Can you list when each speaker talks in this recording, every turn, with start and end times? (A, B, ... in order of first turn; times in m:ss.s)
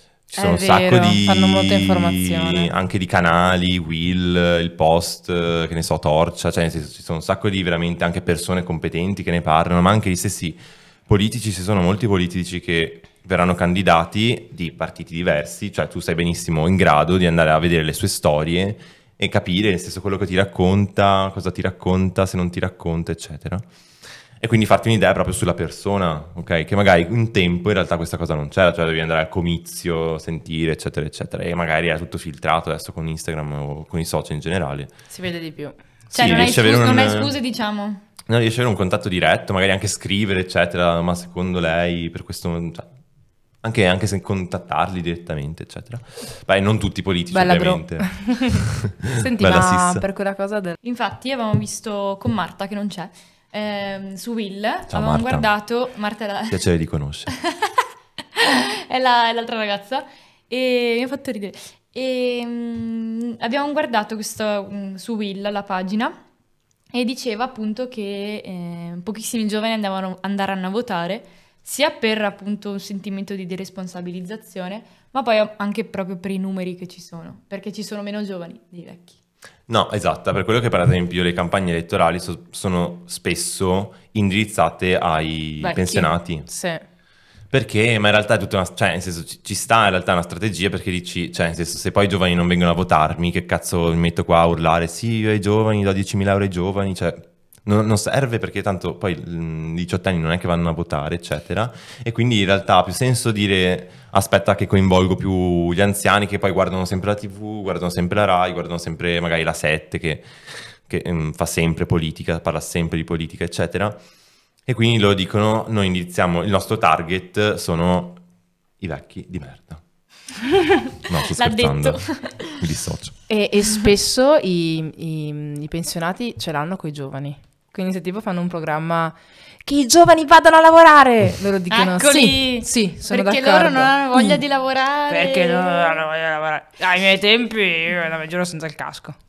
0:00.3-0:23.7 A
0:00.4-0:02.7 B
0:24.4-0:34.9 A
0:35.1-0:35.8 B
0:36.1-0:37.4 A
0:36.1-0:38.0 C
0:38.3-0:42.9 A
0:43.6-0:50.0 A
0:47.3-0:48.6 B
0:49.2-0:50.8 B
0:50.8-0:56.6 C
0:54.9-0:55.5 A
0:56.5-0:57.4 A
0:57.4-1:06.2 C
1:06.9-1:19.2 C
1:19.7-1:26.5 A
1:25.6-1:26.8 B
1:27.5-1:54.0 A
1:54.7-1:58.2 A
1:58.8-1:59.8 A
2:01.0-2:03.2 A
2:01.2-2:02.6 C
2:03.3-2:14.4 B
2:11.7-2:16.0 C
2:15.1-2:19.2 B